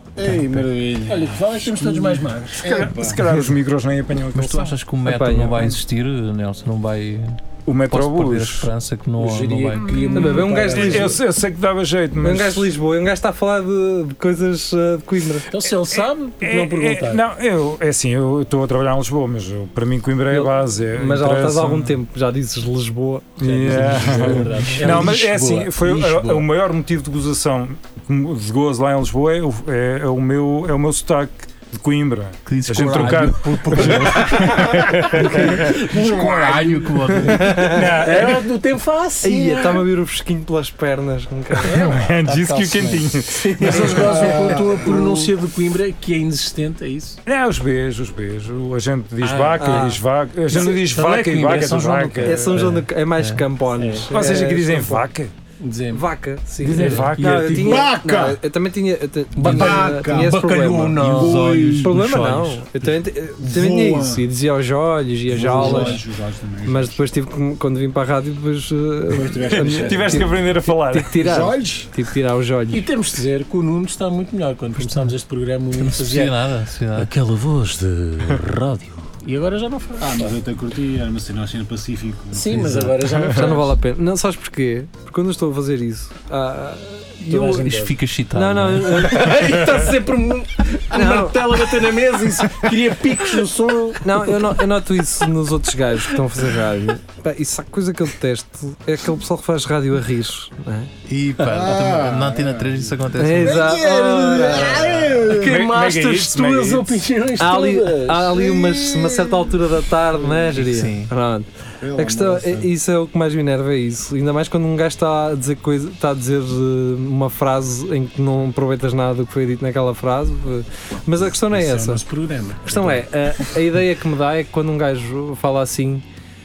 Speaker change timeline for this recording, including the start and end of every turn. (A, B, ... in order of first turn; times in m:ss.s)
0:00.2-0:03.3 A
0:01.1-0:02.6 B
0:02.6-0:04.8 C
0:04.3-0:10.1 D
0:05.0-0:05.8 E
0:07.7-0:08.7 C
0:09.2-0:11.2 B
0:09.8-0:12.7 C
0:10.1-0:11.2 E
0:12.2-0:15.5 E
0:15.5-0:17.2 B
0:15.9-0:22.0 C
0:20.3-0:23.4 E
0:23.4-0:35.7 C
0:23.4-0:26.5 B
0:32.5-0:34.3 D
0:33.0-0:36.7 B
0:35.6-0:37.3 A
0:35.7-0:37.6 D
0:37.2-0:39.9 B
0:37.4-0:37.8 E
0:37.6-0:38.5 C
0:39.2-0:41.9 E
0:41.6-0:47.2 B
0:41.6-0:45.2 C
0:43.7-0:45.0 A
0:47.3-0:52.7 C
0:49.2-0:49.7 B
0:49.5-0:50.0 E
0:50.5-0:52.8 B
0:52.2-0:55.1 E
0:53.2-0:53.5 D
0:53.8-0:54.1 B
0:54.1-0:55.3 C
0:55.6-0:56.0 B
0:55.9-1:01.2 E
0:56.6-0:57.9 C
0:56.8-0:57.0 D
0:56.8-0:57.5 B
0:57.5-0:58.4 A
0:59.4-1:01.5 B
0:59.4-1:01.9 A
1:01.0-1:02.7 D
1:01.8-1:06.0 E
1:03.4-1:04.3 A
1:05.3-1:07.1 A
1:05.4-1:06.0 B
1:06.7-1:12.9 E
1:09.1-1:10.4 A
1:09.5-1:11.2 C
1:11.2-1:11.9 A
1:12.7-1:16.4 B
1:14.8-1:15.1 D
1:15.8-1:17.1 D
1:17.0-1:20.3 B
1:20.0-1:23.1 A
1:22.3-1:23.7 B
1:23.3-1:27.8 E
1:27.2-1:28.0 B
1:27.7-1:29.2 D
1:28.3-1:29.4 E
1:28.9-1:34.7 B
1:30.9-1:31.5 E
1:34.0-1:40.9 E
1:41.1-1:43.7 D
1:41.4-1:45.6 A
1:43.2-1:45.4 E
1:44.5-1:48.4 B
1:45.3-1:47.0 C
1:47.4-2:02.0 E
1:48.3-1:49.5 A
1:50.5-1:51.1 D
1:51.8-1:52.7 A
2:01.4-2:03.6 B
2:02.6-2:06.0 E